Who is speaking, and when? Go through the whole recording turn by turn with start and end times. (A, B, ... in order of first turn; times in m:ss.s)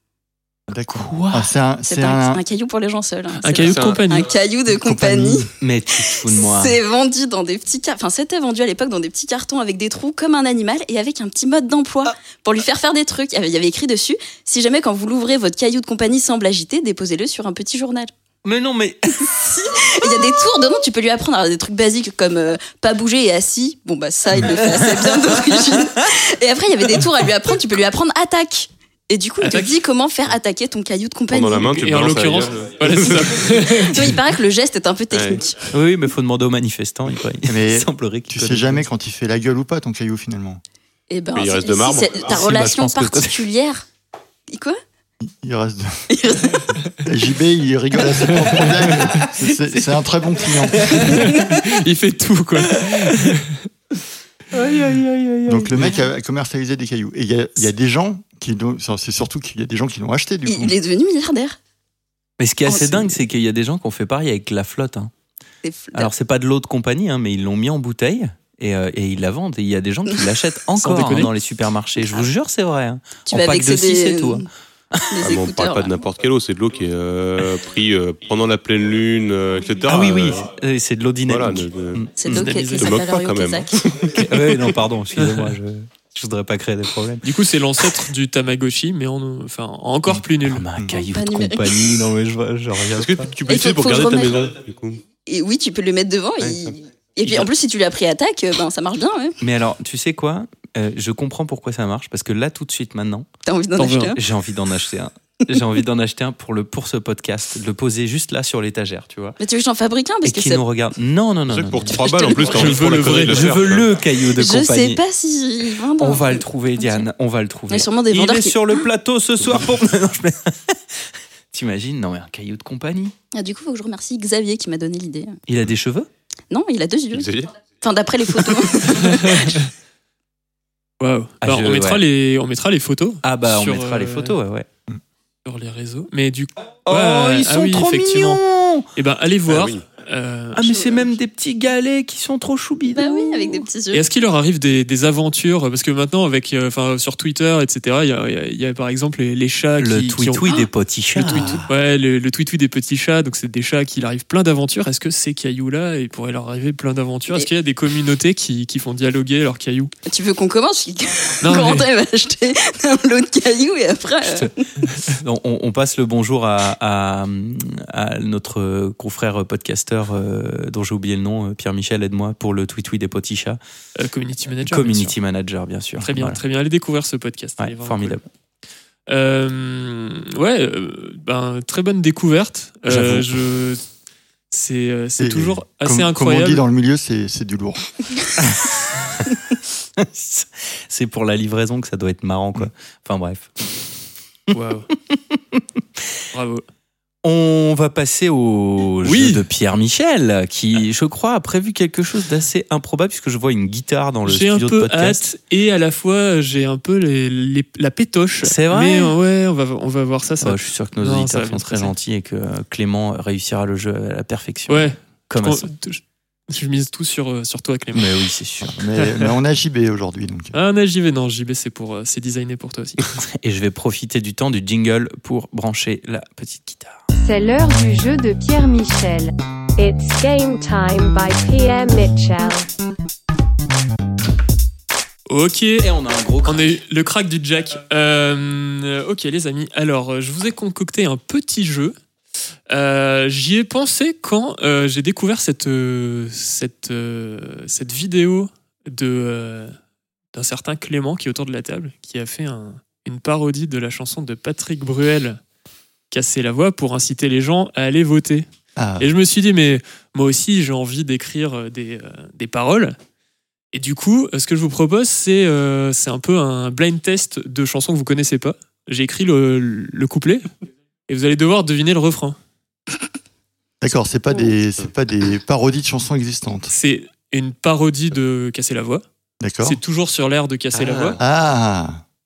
0:00.7-0:02.4 A
0:00.9-0:01.5 B
0:01.8-0:05.5 C
0:03.4-0:04.3 D
0:03.7-0:04.0 E
0:04.7-0:05.5 A
0:05.6-0:06.8 B
0:06.2-0:18.1 C
0:18.4-0:19.3 B
0:19.3-0:31.8 C
0:24.7-0:25.6 B
0:29.4-0:29.7 D
0:31.3-0:33.5 E
0:31.7-0:34.2 D
0:33.6-0:35.6 C
0:35.1-0:35.4 E
0:35.7-0:38.8 B
0:37.4-0:40.6 A
0:41.1-0:43.8 C
0:41.3-0:42.3 E
0:42.2-0:43.5 B
0:44.5-0:44.8 C
0:45.2-0:46.2 A
0:46.1-0:46.6 C
0:47.0-0:51.2 A
0:48.3-0:49.3 D
0:50.8-0:53.7 D
0:51.0-0:51.6 B
0:52.7-0:53.3 B
0:54.5-0:56.0 B
0:55.4-1:00.7 A
1:00.4-1:01.6 C
1:02.4-1:05.1 B
1:02.6-1:03.2 C
1:05.6-1:06.1 C
1:05.9-1:15.1 B
1:10.8-1:11.3 D
1:12.0-1:12.3 C
1:13.3-1:14.4 C
1:15.1-1:16.0 C
1:15.2-1:20.5 E
1:19.8-1:22.4 B
1:21.3-1:24.2 E
1:22.2-1:23.7 C
1:22.3-1:23.0 D
1:24.2-1:27.3 B
1:25.2-1:25.5 D
1:27.2-1:30.6 D
1:30.4-1:33.3 B
1:30.9-1:32.0 C
1:32.9-1:35.0 E
1:33.5-1:34.5 C
1:35.2-1:39.4 C
1:36.4-1:36.8 E
1:39.4-1:43.3 B
1:43.4-1:44.2 C
1:43.8-1:44.1 D
1:44.0-1:49.4 B
1:49.4-1:50.6 C
1:50.2-1:55.0 B
1:51.5-1:53.9 E
1:52.0-1:52.8 C
1:52.5-1:53.6 D
1:54.3-1:57.0 C
1:56.0-2:01.0 B
1:57.7-1:58.8 C
2:01.5-2:03.1 B
2:03.3-2:05.4 C
2:05.5-2:06.1 B
2:06.5-2:07.3 C
2:07.1-2:07.5 E
2:07.8-2:09.6 C
2:09.0-2:09.7 D
2:11.0-2:14.4 D
2:11.4-2:12.0 B
2:13.2-2:14.7 B
2:15.4-2:18.4 D
2:16.8-2:18.9 B
2:19.0-2:20.7 D
2:19.5-2:19.8 E
2:20.5-2:23.6 B
2:22.9-2:24.1 C
2:23.9-2:30.5 D
2:29.8-2:31.6 B
2:31.2-2:39.9 D
2:31.2-2:31.6 C
2:40.0-2:44.6 C
2:41.4-2:41.9 D
2:45.0-2:53.6 B
2:54.0-2:55.2 D
2:54.6-2:56.4 B
2:56.0-2:58.2 D
2:57.6-2:58.2 B
2:59.1-3:03.8 D
3:02.9-3:03.4 B
3:04.5-3:06.6 D
3:05.2-3:07.9 A
3:08.4-3:08.7 B
3:10.0-3:13.9 B
3:14.5-3:14.9 D
3:15.1-3:15.6 B
3:16.3-3:16.6 D
3:17.2-3:25.2 B
3:19.0-3:19.4 D
3:24.2-3:31.9 D
3:28.4-3:29.2 B
3:30.4-3:35.7 B
3:34.7-3:38.2 D
3:37.9-3:38.8 B
3:38.8-3:40.5 A
3:40.5-3:43.1 D
3:43.3-3:47.0 B
3:47.2-3:52.7 F
3:55.3-3:55.9 D
3:55.8-3:56.8 B
3:56.4-4:02.0 D
4:02.7-4:09.7 D
4:10.3-4:15.4 D
4:16.1-4:18.5 D
4:18.8-4:19.1 A
4:19.0-4:23.0 D
4:23.7-4:30.5 D
4:31.1-4:32.4 D
4:33.8-4:36.7 A
4:36.7-4:39.0 D
4:39.4-4:39.8 A
4:39.6-4:41.2 D
4:40.7-4:41.2 E
4:41.2-4:42.0 A